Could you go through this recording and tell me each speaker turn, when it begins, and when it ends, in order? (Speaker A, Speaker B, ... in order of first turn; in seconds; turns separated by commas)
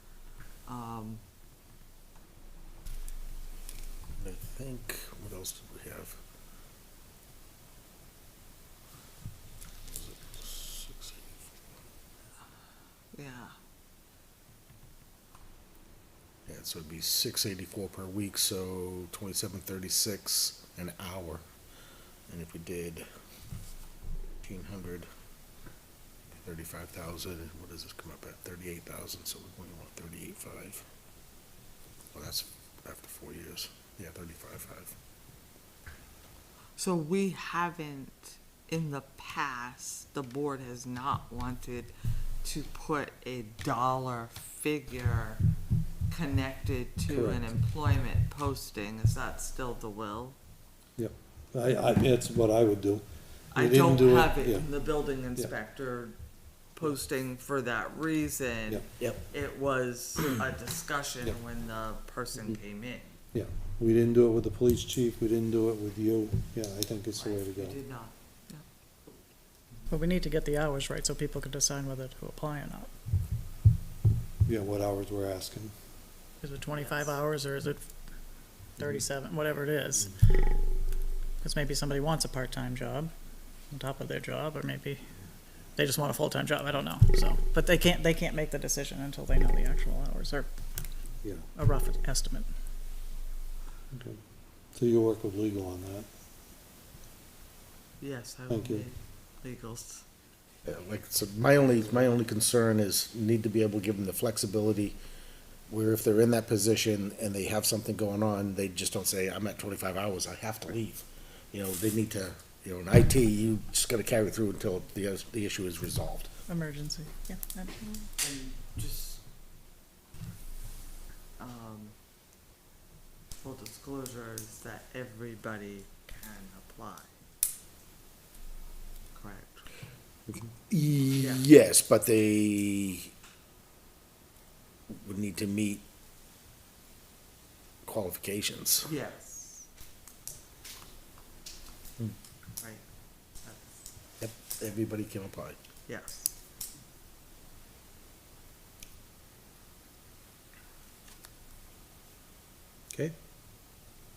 Speaker A: 0.7-1.2, Speaker B: 4.2-6.2, Speaker B: 9.9-11.5, Speaker A: 13.1-13.6, Speaker B: 16.5-21.4, Speaker B: 22.3-23.1, Speaker B: 24.4-25.1, Speaker B: 26.4-30.9, Speaker B: 32.1-35.0, Speaker A: 36.8-45.4, Speaker A: 46.1-50.4, Speaker C: 47.1-47.5, Speaker C: 51.0-53.0, Speaker A: 53.5-56.2, Speaker C: 53.5-54.7, Speaker A: 56.8-63.1, Speaker C: 63.3-67.8, Speaker A: 67.2-68.6, Speaker D: 69.9-72.9, Speaker C: 74.5-75.7, Speaker D: 76.4-77.8, Speaker A: 76.8-77.2, Speaker D: 78.8-80.2, Speaker D: 81.4-83.1, Speaker D: 83.7-85.0, Speaker D: 85.8-90.5, Speaker D: 91.6-92.5, Speaker C: 93.9-94.2, Speaker C: 94.8-96.1, Speaker A: 98.0-100.0, Speaker C: 98.5-98.9, Speaker B: 100.7-105.0, Speaker B: 105.7-116.3, Speaker D: 116.5-118.1, Speaker A: 118.2-119.2, Speaker A: 121.4-122.0, Speaker A: 123.4-127.1, Speaker A: 129.1-129.7, Speaker B: 130.7-133.1, Speaker A: 131.2-131.4, Speaker B: 134.9-135.8, Speaker B: 137.8-138.9, Speaker A: 138.8-139.7, Speaker A: 143.4-143.8, Speaker B: 144.2-145.6, Speaker A: 145.9-146.3